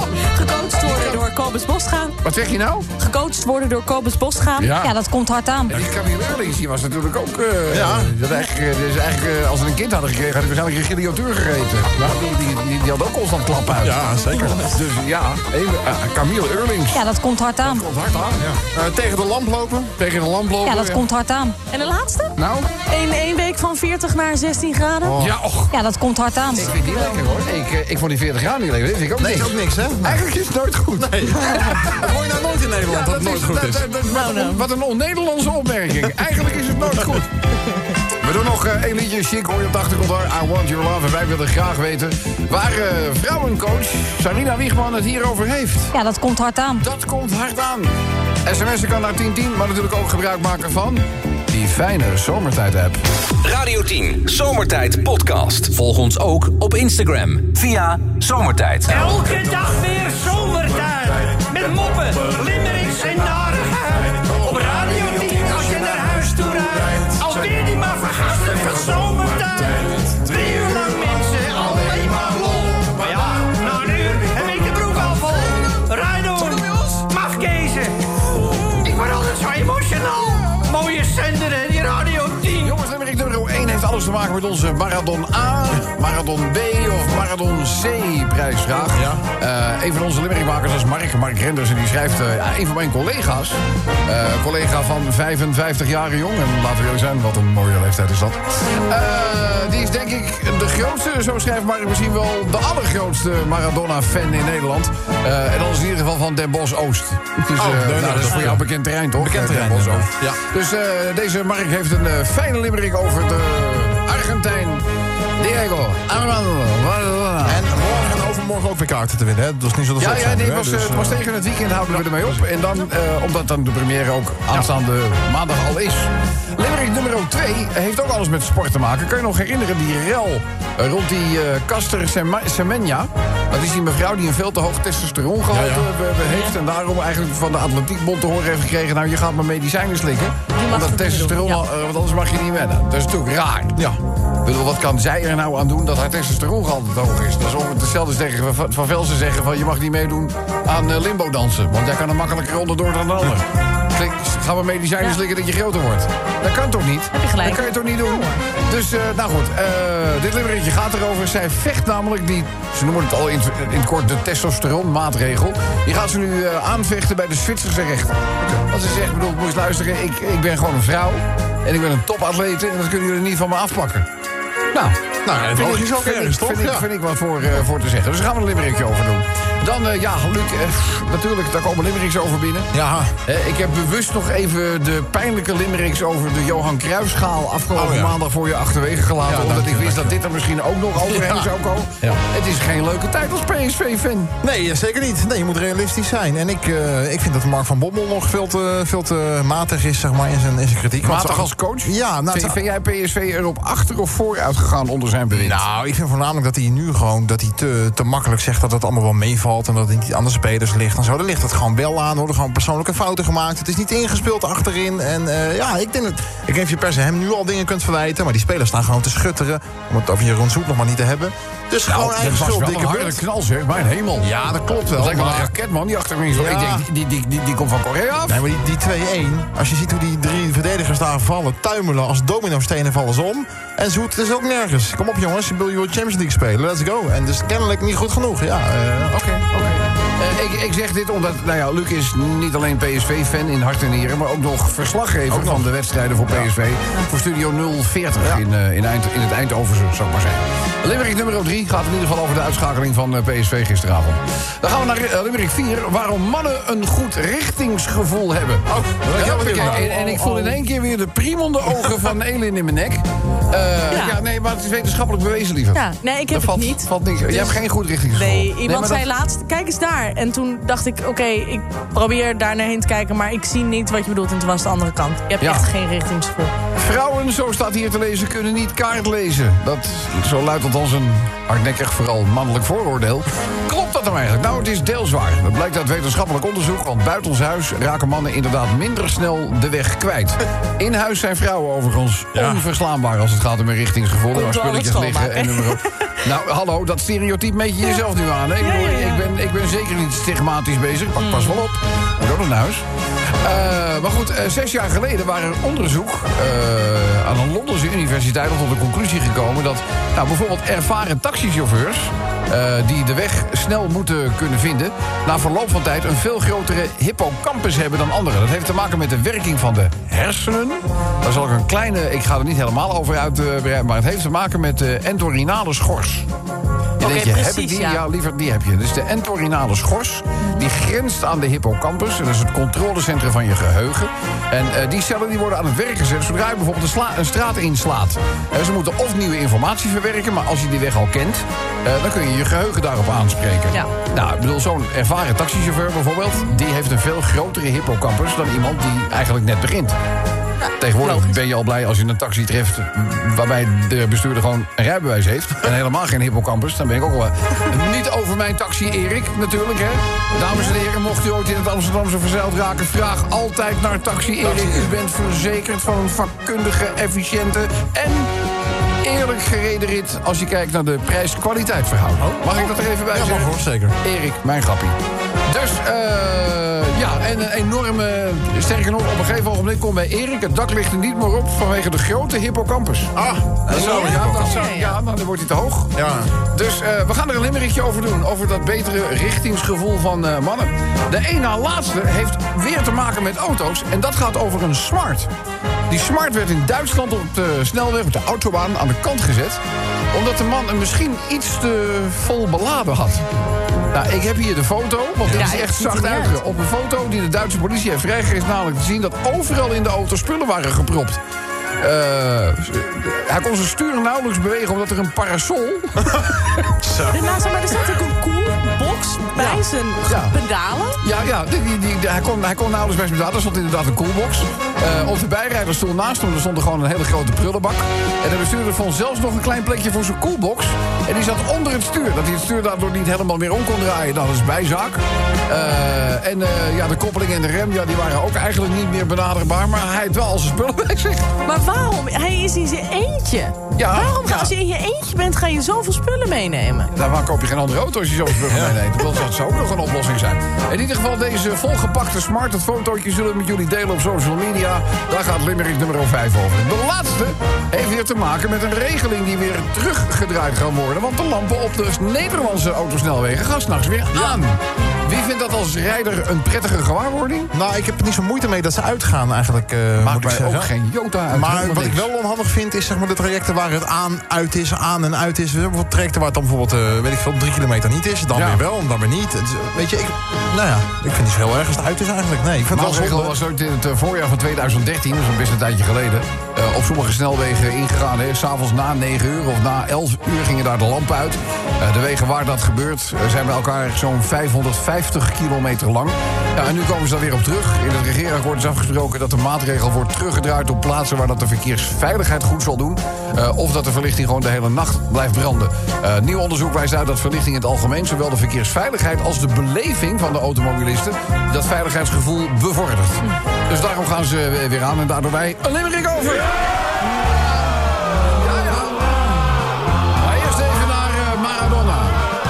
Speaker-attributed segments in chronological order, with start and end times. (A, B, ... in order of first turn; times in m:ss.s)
0:00.2-0:02.2 A
0:02.2-0:02.9 B
0:03.0-0:04.7 A
0:04.6-0:04.9 B
0:04.8-0:05.8 C
0:05.7-0:17.0 B
0:07.7-0:08.1 D
0:13.8-0:14.8 D
0:16.9-0:17.8 C
0:17.6-0:18.4 B
0:18.4-0:20.0 D
0:20.0-0:21.0 B
0:20.6-0:21.6 C
0:21.7-0:25.2 A
0:22.4-0:22.7 B
0:25.0-0:25.4 D
0:25.2-0:25.7 B
0:25.7-0:26.7 C
0:26.6-0:32.1 B
0:29.2-0:30.3 D
0:31.0-0:33.9 D
0:32.8-0:37.3 B
0:34.1-0:34.7 A
0:38.2-0:45.9 B
0:45.9-0:46.8 C
0:46.8-0:47.9 B
0:48.4-0:53.0 B
0:53.4-0:59.1 E
0:58.9-1:18.1 F
1:18.8-1:22.7 F
1:22.6-1:54.9 B
1:28.9-1:29.2 D
1:47.6-1:50.4 D
1:55.4-1:57.7 B
1:57.4-2:01.2 D
2:00.0-2:23.8 B
2:02.0-2:02.4 D
2:15.5-2:15.9 D
2:16.3-2:16.6 A
2:20.6-2:21.6 A
2:24.4-2:54.1 B
2:37.1-2:38.4 A
2:54.7-3:02.7 B
2:55.2-2:56.9 D
3:02.7-3:03.1 D
3:03.3-3:14.3 B
3:07.8-3:08.2 D
3:09.2-3:10.2 D
3:11.0-3:11.5 D
3:14.4-3:22.6 D
3:21.0-3:25.6 B
3:25.3-3:43.2 D
3:41.9-3:48.4 B
3:44.2-3:45.5 D
3:46.3-3:46.9 D
3:48.3-3:59.4 D
3:59.2-4:29.0 B
4:05.3-4:05.7 D
4:18.7-4:20.4 D
4:23.9-4:24.2 A
4:25.7-4:36.5 A
4:35.4-4:35.7 B
4:36.8-5:02.8 B
4:52.3-4:52.6 D
4:54.3-4:56.1 A
4:58.6-4:59.3 A
5:01.2-5:01.6 A
5:03.4-5:26.3 B
5:27.0-5:28.0 A
5:27.0-5:50.0 B
5:50.6-5:51.4 A
5:50.8-6:08.3 B
6:04.4-6:05.0 D
6:09.0-6:15.0 B
6:12.2-6:14.0 D
6:15.5-6:23.1 B
6:23.2-6:24.6 D
6:23.7-6:26.0 B
6:23.7-6:25.0 A
6:26.0-6:26.3 D
6:26.5-6:35.3 B
6:35.9-6:39.6 B
6:40.1-6:43.2 B
6:43.9-6:51.2 B
6:45.2-6:45.5 D
6:45.3-6:46.4 A
6:51.8-6:56.6 B
6:56.8-6:57.2 D
6:57.1-7:01.0 A
6:59.4-7:00.4 B
7:01.0-7:21.3 B
7:21.4-7:26.9 A
7:23.8-7:24.5 B
7:26.9-7:47.5 B
7:28.4-7:28.8 D
7:44.2-7:44.9 A
7:47.5-7:50.7 D
7:50.0-7:52.1 B
7:51.3-8:03.4 D
7:58.3-7:58.6 B
8:02.7-8:39.6 B
8:40.2-8:42.3 B